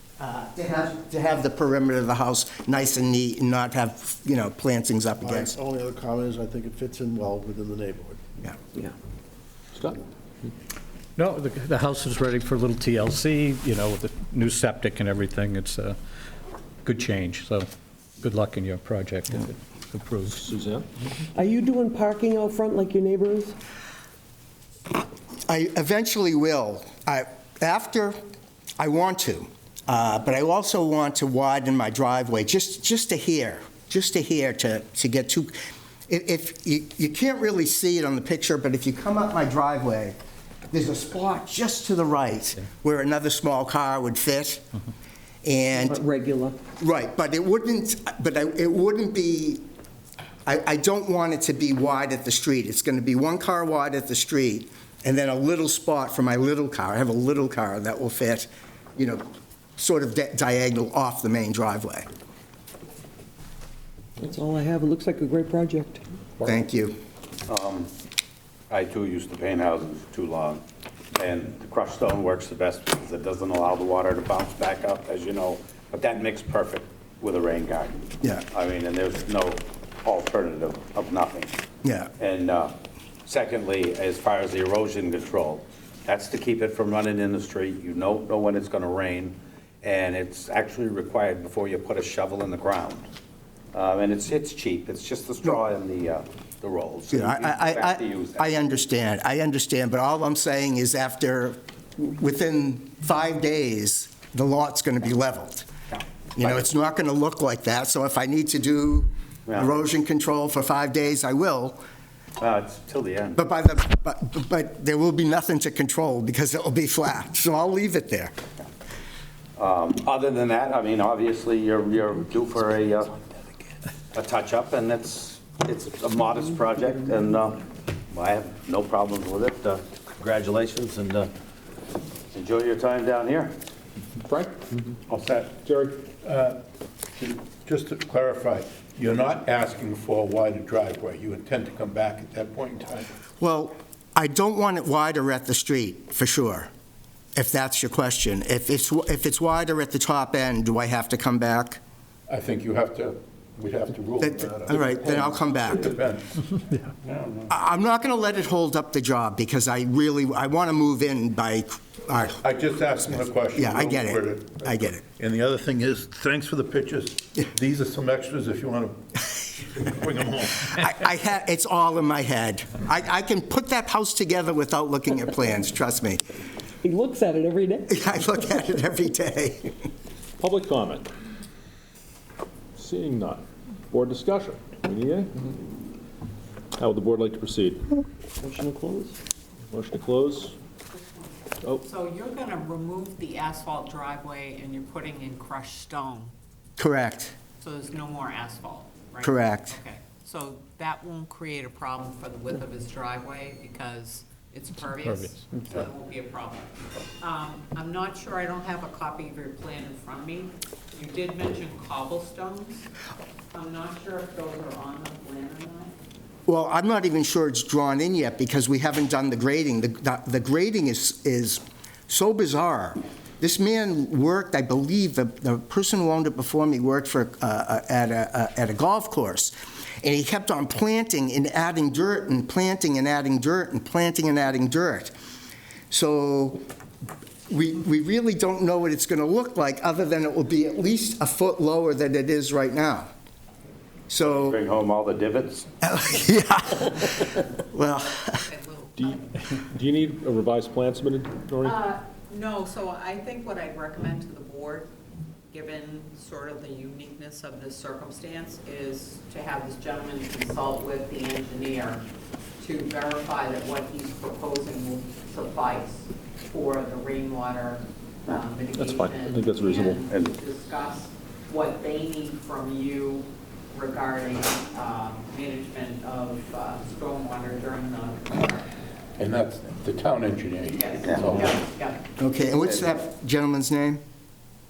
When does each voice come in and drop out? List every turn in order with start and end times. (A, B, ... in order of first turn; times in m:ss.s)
0:00.2-0:05.5 A
0:05.2-0:08.2 B
0:11.2-0:16.0 C
0:16.8-0:17.7 C
0:18.2-0:19.4 C
0:20.4-0:20.8 D
0:21.3-0:23.6 E
0:25.5-0:28.2 A
0:28.8-0:35.5 A
0:36.1-0:40.2 A
0:40.7-0:44.7 A
0:45.4-0:46.0 A
0:45.8-0:46.6 E
0:46.8-0:49.6 A
0:50.4-0:59.2 A
0:59.8-1:02.1 A
1:04.2-1:06.0 E
1:06.4-1:07.0 A
1:07.5-1:07.9 F
1:08.7-1:10.6 F
1:11.2-1:21.5 F
1:21.8-1:22.1 A
1:22.2-1:22.7 F
1:23.3-1:33.1 F
1:33.7-1:38.6 F
1:37.1-1:45.7 A
1:45.9-1:46.6 F
1:46.4-1:51.8 A
1:49.5-1:49.8 F
1:52.4-1:53.4 F
1:53.3-1:58.3 A
1:59.6-2:03.2 F
2:04.1-2:11.3 F
2:12.3-2:13.5 F
2:15.1-2:15.4 F
2:15.2-2:16.6 G
2:17.2-2:23.1 G
2:23.4-2:26.7 A
2:27.4-2:31.8 A
2:32.3-2:37.5 G
2:34.2-2:35.9 A
2:37.5-2:42.4 A
2:42.4-2:50.9 G
2:43.5-2:45.0 A
2:50.7-2:56.2 A
2:56.8-2:58.0 E
2:57.9-2:59.8 A
3:00.4-3:01.1 D
3:02.8-3:05.3 D
3:06.8-3:07.8 D
3:08.4-3:09.2 E
3:09.7-3:10.6 D
3:10.9-3:16.3 H
3:16.8-3:17.4 A
3:17.6-3:32.9 H
3:19.2-3:19.8 A
3:33.5-3:35.9 H
3:36.5-3:55.1 A
3:55.9-3:56.6 A
3:57.5-4:03.1 A
4:04.1-4:04.6 A
4:04.2-4:05.7 F
4:05.8-4:08.4 A
4:08.1-4:09.2 H
4:09.8-4:11.8 D
4:11.6-4:14.9 H
4:15.5-4:22.0 H
4:22.6-4:38.7 H
4:28.8-4:30.0 D
4:39.2-4:41.6 G
4:40.8-4:42.0 H
4:41.0-4:41.3 F
4:42.2-4:44.0 A
4:42.6-4:42.9 F